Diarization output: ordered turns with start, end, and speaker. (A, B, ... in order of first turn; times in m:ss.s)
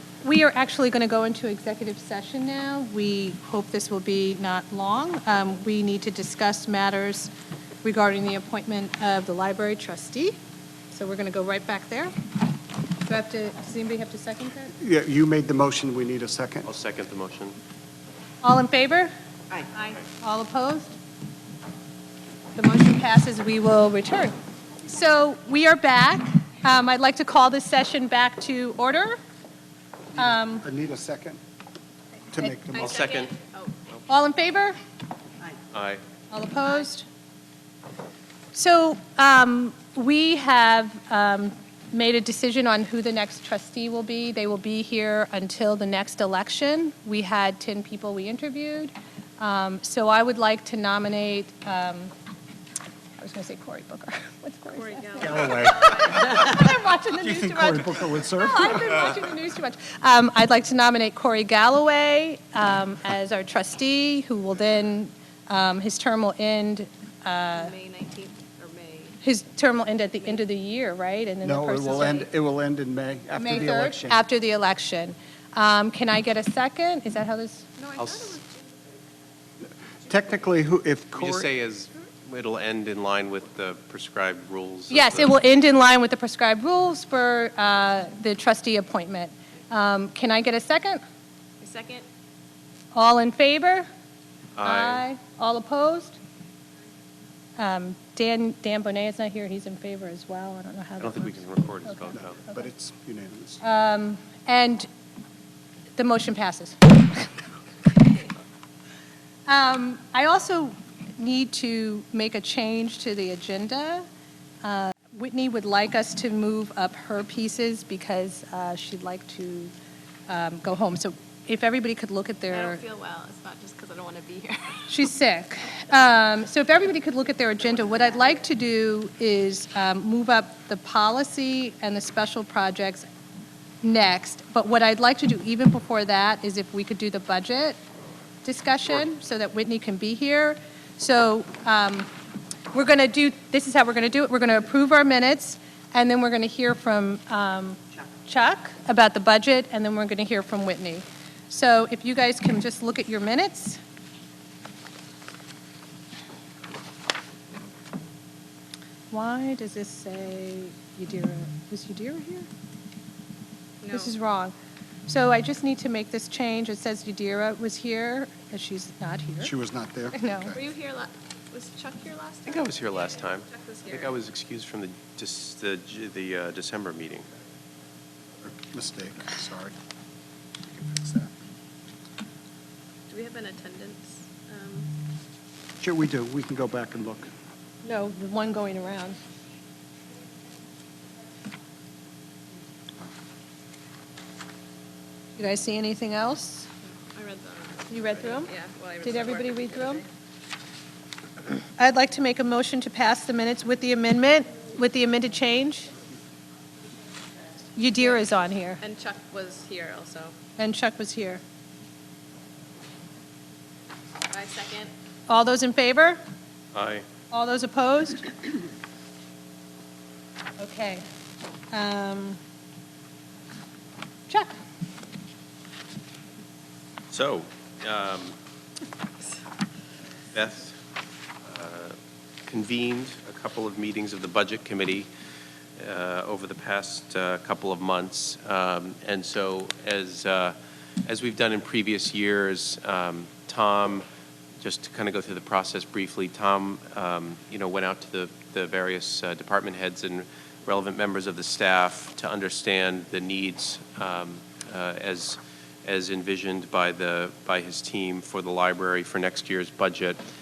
0:00.2-0:07.3 A
0:07.8-0:10.4 A
0:10.9-0:12.1 A
0:13.0-0:14.7 A
0:14.8-0:16.7 B
0:16.6-0:17.6 C
0:18.4-0:21.0 A
0:22.5-0:29.2 A
0:30.1-0:30.6 A
0:30.6-0:31.4 B
0:32.3-0:33.0 B
0:32.4-0:32.7 A
0:32.7-0:33.3 C
0:32.7-0:33.8 D
0:34.1-0:34.8 A
0:35.7-0:36.0 C
0:36.3-0:37.0 A
0:38.5-0:52.1 A
0:53.2-1:07.7 A
0:54.8-0:56.2 D
0:55.2-0:56.6 B
0:57.2-0:59.0 B
1:07.5-1:09.2 D
1:09.2-1:12.3 A
1:11.4-1:14.2 B
1:13.3-1:17.7 A
1:17.8-1:18.9 D
1:18.0-1:18.4 C
1:19.6-1:21.5 B
1:21.1-1:25.4 C
1:24.9-1:31.0 A
1:31.6-1:32.0 D
1:32.9-1:33.8 A
1:34.6-1:35.0 C
1:34.6-1:36.2 A
1:37.6-1:42.7 A
1:41.0-1:42.4 C
1:42.1-1:43.6 B
1:43.6-1:44.9 A
1:46.0-1:47.4 A
1:49.5-1:54.0 A
1:54.6-1:59.7 A
2:00.3-2:02.8 A
2:02.5-2:04.9 D
2:04.9-2:13.0 A
2:13.8-2:17.8 A
2:18.4-2:22.1 A
2:22.7-2:33.8 A
2:39.1-2:42.5 A
2:43.8-2:44.1 D
2:43.9-2:44.5 A
2:45.1-2:49.5 A
2:49.4-2:50.6 B
2:50.1-2:50.6 A
2:50.5-2:54.1 D
2:52.5-2:57.2 C
2:58.4-2:59.7 B
3:00.7-3:01.3 B
3:03.1-3:04.9 D
3:05.8-3:07.3 B
3:07.8-3:09.2 A
3:15.4-3:16.7 A
3:17.1-3:20.1 D
3:17.9-3:18.5 A
3:19.0-3:20.0 A
3:21.8-3:25.9 A
3:27.8-3:28.8 A
3:28.8-3:30.3 D
3:30.6-3:31.4 A
3:34.3-3:34.9 D
3:35.3-3:36.2 A
3:36.7-3:37.0 C
3:37.3-3:38.4 A
3:40.6-3:41.0 A
3:41.7-3:42.4 A
3:44.3-3:44.6 A
3:47.1-3:48.3 C
3:50.3-3:50.8 C
3:51.4-3:52.0 C
3:52.5-3:55.1 C
3:55.8-4:04.0 C
4:04.6-4:20.2 C